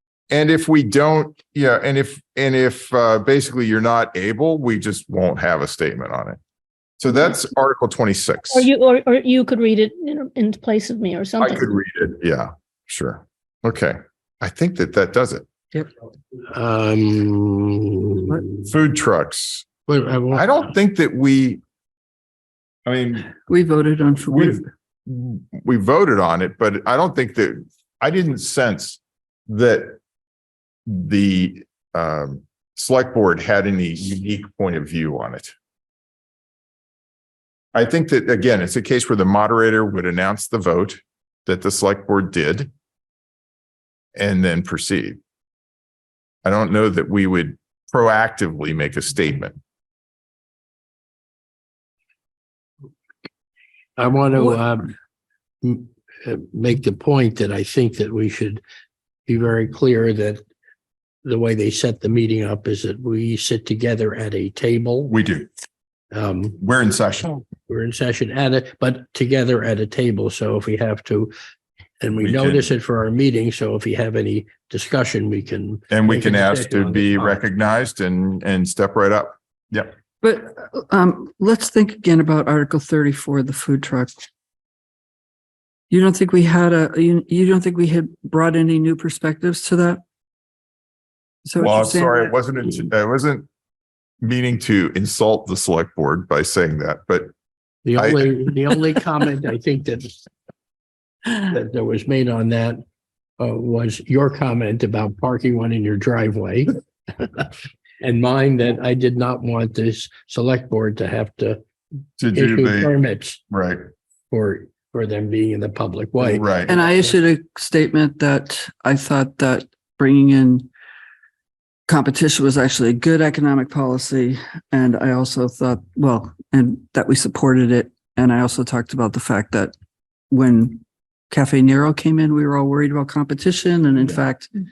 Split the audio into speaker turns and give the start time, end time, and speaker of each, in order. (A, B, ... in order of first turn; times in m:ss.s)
0:00.3-0:06.4 A
0:07.0-0:08.7 A
0:08.5-0:11.7 B
0:11.4-0:15.5 A
0:16.5-0:18.6 C
0:18.6-0:19.7 A
0:19.9-0:20.7 C
0:20.3-0:21.6 A
0:22.8-0:23.3 A
0:23.5-0:24.6 D
0:24.3-0:30.0 A
0:30.9-0:35.5 A
0:37.7-0:42.7 A
0:44.2-0:45.2 A
0:46.4-0:49.6 A
0:54.0-0:54.9 C
0:55.6-0:58.6 C
0:59.2-1:00.4 C
1:01.2-1:05.1 C
1:05.1-1:05.5 A
1:06.1-1:06.6 C
1:06.6-1:07.4 A
1:07.7-1:11.3 C
1:12.0-1:17.4 C
1:12.2-1:12.7 A
1:15.9-1:19.9 A
1:20.2-1:24.2 D
1:25.9-1:30.0 D
1:31.5-1:32.3 D
1:31.6-1:33.5 A
1:34.2-1:37.3 A
1:37.8-1:40.3 C
1:38.0-1:38.3 A
1:41.3-1:42.8 C
1:43.4-1:46.8 C
1:48.0-1:51.6 C
1:52.2-1:52.9 A
1:52.3-1:53.4 C
1:53.5-1:53.8 A
1:54.3-1:57.1 C
1:56.2-1:56.8 A
1:56.7-2:00.7 D
2:01.9-2:09.7 D
2:10.3-2:14.5 D